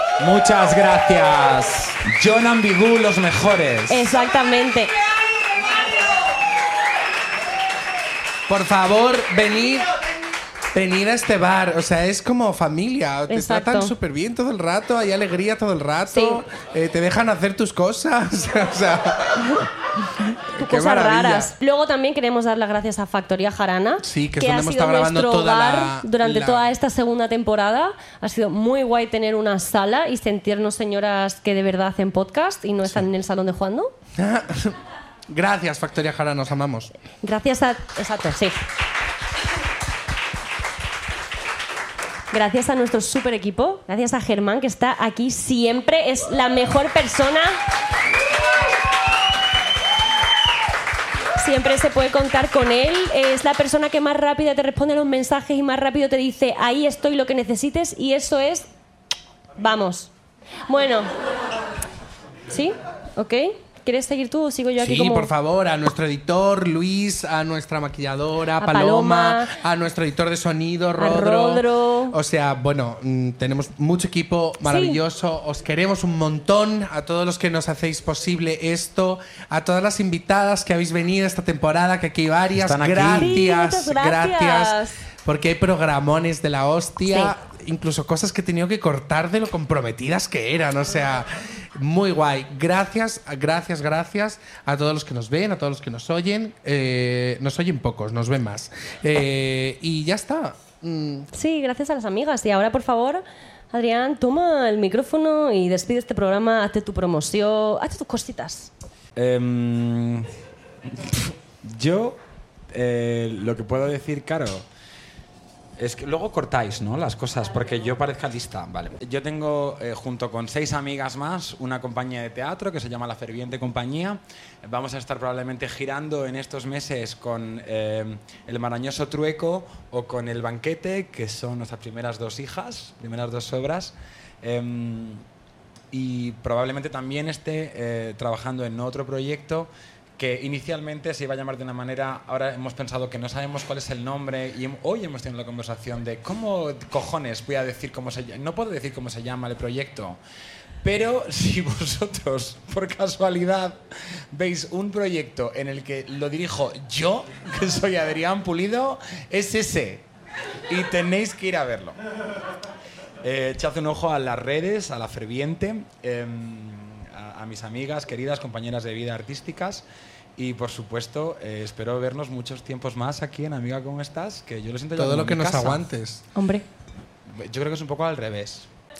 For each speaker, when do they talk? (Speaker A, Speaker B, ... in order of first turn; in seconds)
Speaker A: 0.2-4.1, 82.5-83.4, 109.2-112.2, 112.7-114.7, 115.8-135.2, 135.9-150.2, 150.8-160.1, 160.7-162.0, 163.2-169.8, 170.4-175.8, 177.3-178.7
Speaker B: 3.9-4.9, 13.3-13.9, 16.1-16.4, 20.6-33.9, 37.2-38.6, 42.3-47.6, 51.4-58.7, 59.6-60.1, 60.7-61.1, 62.5-65.3, 68.6-69.5, 71.0-72.2, 74.6-75.0, 83.2-85.0, 101.3-108.7, 176.3-176.7
Speaker C: 8.5-9.9, 10.7-19.7, 20.5-21.5, 24.0-26.6, 34.2-34.8, 35.3-36.9, 64.8-101.3, 175.0-176.3